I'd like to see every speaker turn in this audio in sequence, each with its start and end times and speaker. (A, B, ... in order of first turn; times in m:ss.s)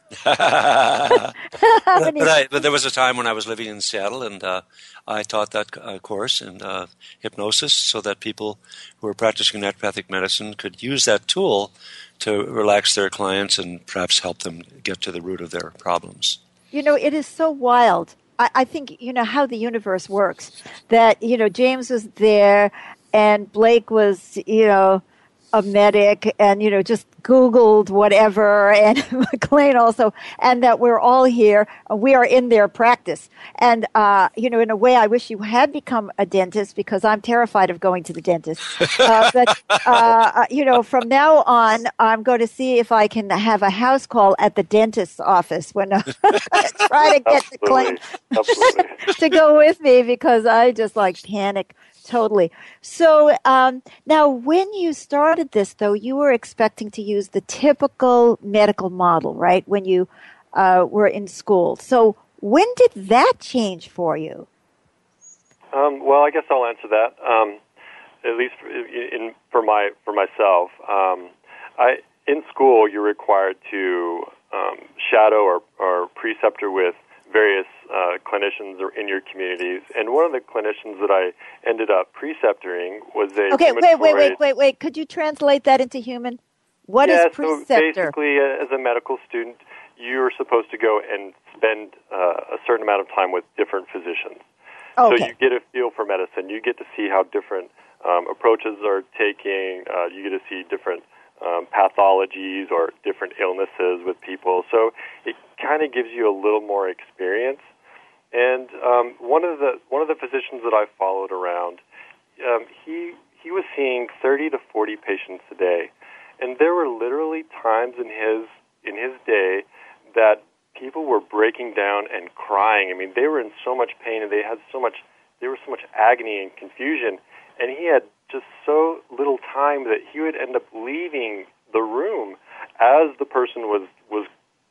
0:00.2-0:01.4 A
0:01.6-0:02.3 B
0:01.9-0:16.4 A
0:16.7-1:04.5 B
0:47.2-0:49.0 C
1:05.7-1:07.6 C
1:08.2-1:24.4 C
1:23.5-1:28.1 B
1:27.0-1:34.4 C
1:35.0-1:35.3 B
1:35.0-1:47.6 C
1:48.3-1:51.8 C
1:52.4-2:14.3 C